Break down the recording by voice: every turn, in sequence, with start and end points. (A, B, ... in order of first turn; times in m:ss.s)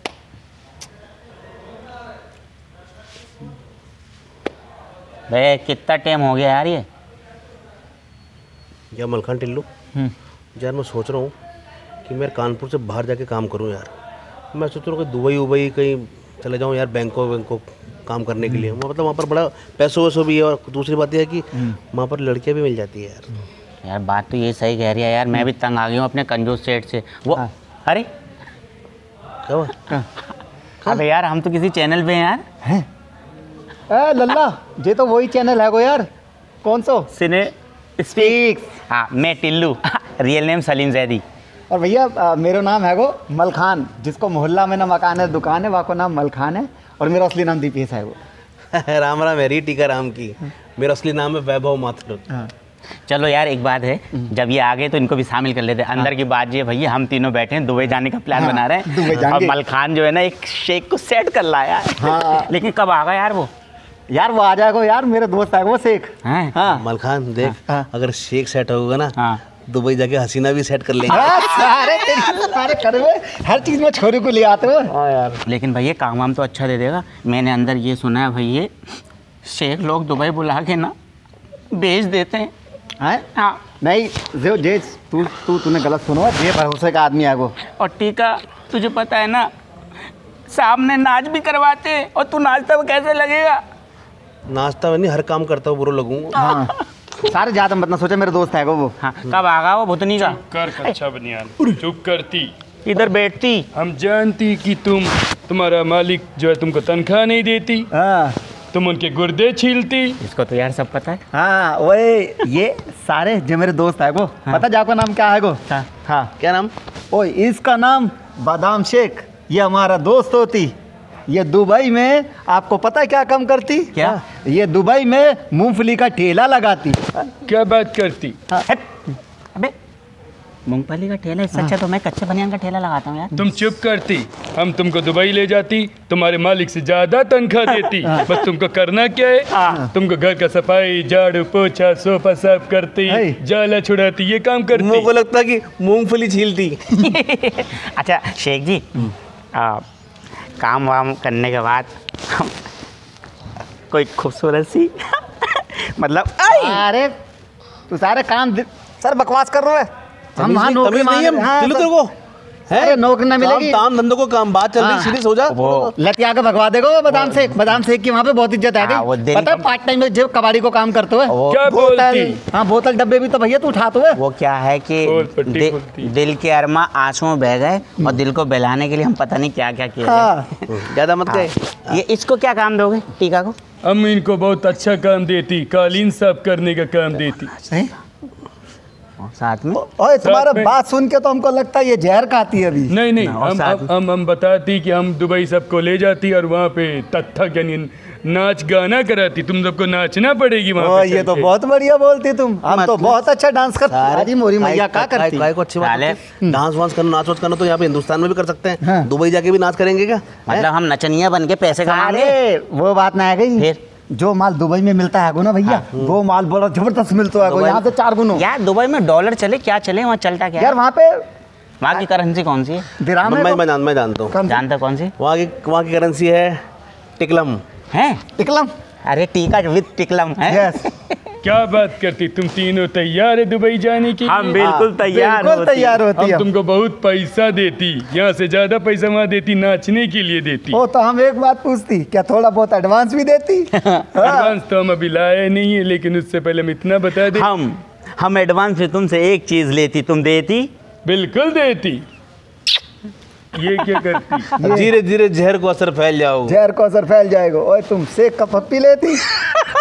0:05.3-0:06.8 A
0:08.9-0:09.7 B
0:10.6-0:11.3 B
0:12.0-0:13.9 B
0:14.5-0:23.3 B
0:23.8-0:28.1 A
0:29.4-0:29.8 B
0:30.9-0:32.4 A
0:33.9-0:36.1 C
0:36.6-0:37.1 C
0:37.1-0:38.4 A
0:38.2-0:38.8 C
0:38.9-0:41.2 A
0:41.7-0:48.2 C
0:48.7-0:52.2 B
0:53.1-1:03.5 A
0:58.3-0:59.6 C
1:02.0-1:02.5 C
1:04.1-1:06.8 C
1:06.2-1:06.6 A
1:06.7-1:11.3 B
1:09.1-1:09.4 A
1:11.0-1:14.9 C
1:14.9-1:15.4 B
1:15.4-1:18.7 A
1:19.4-1:20.9 A
1:21.7-1:22.5 A
1:23.0-1:23.2 C
1:23.3-1:23.6 A
1:23.8-1:27.5 C
1:27.8-1:29.5 A
1:30.5-1:33.6 A
1:34.5-1:36.4 B
1:36.3-1:38.9 C
1:39.0-1:40.4 A
1:40.2-1:42.5 D
1:42.8-1:43.7 A
1:43.7-1:47.9 D
1:47.9-1:48.4 C
1:48.7-1:50.2 D
1:50.2-1:51.2 A
1:51.3-1:56.3 C
1:56.4-1:56.7 B
1:57.1-2:00.7 C
2:01.3-2:07.0 C
2:03.9-2:04.2 A
2:07.4-2:08.4 D
2:10.7-2:13.5 A
2:13.4-2:25.1 D
2:18.0-2:18.3 C
2:19.5-2:19.8 A
2:23.1-2:23.4 C
2:24.7-2:26.9 B
2:26.9-2:29.8 A
2:30.6-2:32.5 A
2:33.9-2:36.8 A
2:36.5-2:37.1 C
2:37.9-2:41.9 C
2:40.4-2:42.1 B
2:42.7-2:45.9 B
2:42.7-2:43.8 C
2:44.8-2:45.2 C
2:45.5-2:45.9 A
2:46.0-2:54.2 C
2:48.8-2:49.6 A
2:51.3-2:51.6 A
2:51.5-2:52.4 D
2:54.2-3:03.6 A
2:55.0-2:56.1 D
3:00.0-3:00.5 C
3:00.7-3:02.0 B
3:03.8-3:07.5 D
3:07.6-3:07.9 C
3:09.2-3:09.8 A
3:09.8-3:12.9 C
3:10.2-3:10.7 D
3:12.9-3:21.5 D
3:13.2-3:13.9 A
3:20.8-3:25.5 C
3:22.7-3:23.1 A
3:23.9-3:30.7 B
3:25.8-3:26.2 A
3:28.8-3:29.1 C
3:30.5-3:32.4 A
3:31.8-3:38.4 C
3:37.4-3:37.8 A
3:38.3-3:40.8 A
3:40.6-3:41.2 C
3:41.8-3:42.9 A
3:42.9-3:43.6 C
3:43.2-3:44.4 B
3:44.3-3:44.6 C
3:44.4-3:45.1 A
3:45.2-3:46.6 B
3:47.2-3:47.6 B
3:47.9-3:48.2 A
3:48.4-3:48.7 C
3:49.1-3:50.8 A
3:50.4-3:50.9 C
3:51.4-3:54.6 D
3:54.2-3:56.1 A
3:54.6-3:56.5 C
3:56.2-4:00.8 D
4:00.7-4:04.6 C
4:03.7-4:04.2 A
4:04.2-4:07.5 D
4:07.3-4:10.7 A
4:11.0-4:12.0 D
4:13.5-4:14.5 D
4:14.5-4:15.0 C
4:14.6-4:16.6 B
4:16.5-4:19.4 C